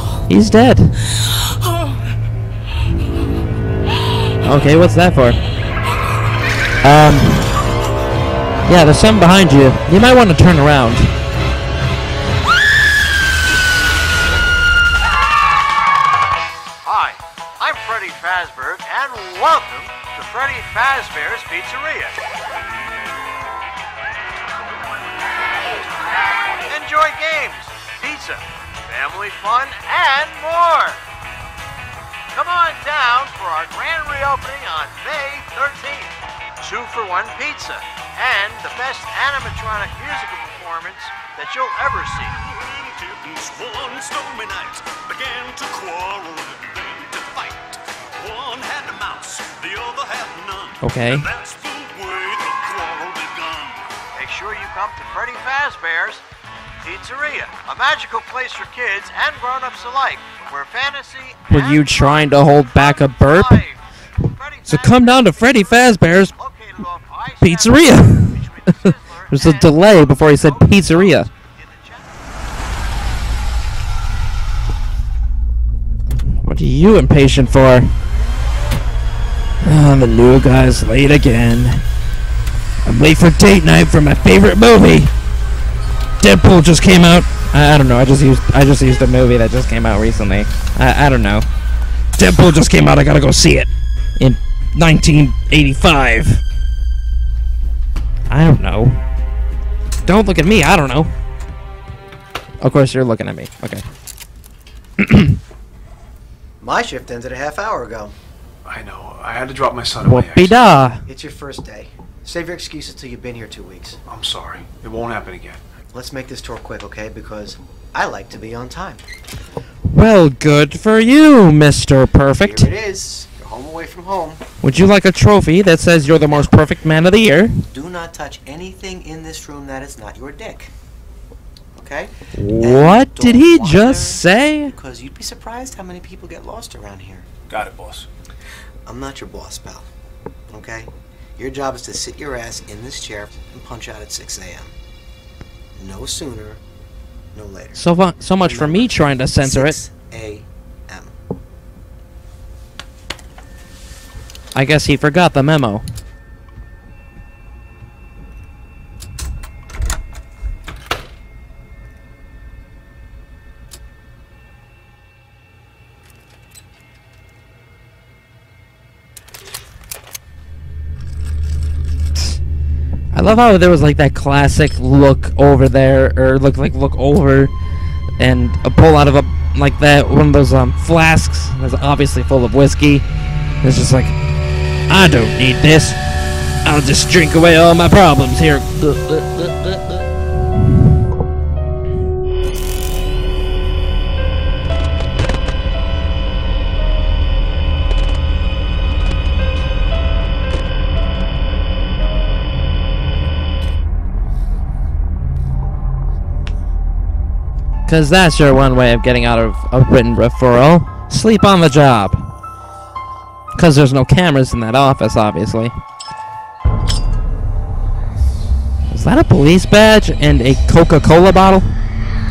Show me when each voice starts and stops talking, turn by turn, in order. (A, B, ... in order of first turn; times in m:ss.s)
0:00.3-0:01.0 A
0:04.4-0:05.4 A
0:06.8-0:07.5 A
0:08.7-0:11.1 A
0:16.9-0:22.1 B
0:26.6-0:30.9 B
0:27.2-0:27.6 C
0:32.3-0:36.0 B
0:36.6-0:39.2 B
0:39.4-0:40.6 C
0:40.2-0:42.1 B
0:41.7-0:42.0 C
0:42.5-0:53.9 D
0:50.8-0:51.3 A
0:54.2-0:56.0 B
0:56.8-1:01.4 B
1:01.5-1:03.6 A
1:04.6-1:06.4 A
1:06.9-1:07.3 B
1:07.4-1:11.3 A
1:16.3-1:17.9 A
1:19.6-1:21.8 A
1:22.8-1:25.1 A
1:26.2-1:31.5 A
1:32.2-1:36.4 A
1:38.3-1:39.0 A
1:40.0-1:41.1 A
1:42.6-1:43.8 A
1:45.0-1:45.4 A
1:46.6-1:48.1 C
1:48.6-1:50.6 E
1:50.0-1:51.0 A
1:51.1-1:54.0 C
1:54.1-1:55.6 E
1:55.9-1:59.0 C
1:59.9-2:02.7 A
2:02.4-2:04.4 C
2:04.6-2:07.6 A
2:07.7-2:10.7 C
2:11.8-2:17.3 C
2:12.3-2:14.7 A
2:17.5-2:18.1 E
2:18.8-2:19.9 C
2:20.5-2:24.7 C
2:25.8-2:26.6 C
2:27.3-2:27.8 C
2:27.8-2:29.8 A
2:28.4-2:31.1 C
2:34.5-2:35.9 A
2:53.1-2:57.5 A
2:58.2-3:03.0 A
3:03.6-3:04.2 A
3:04.9-3:06.0 A
3:06.6-3:10.1 A
3:27.9-3:32.2 A
3:33.6-3:35.7 A
3:38.9-3:41.8 A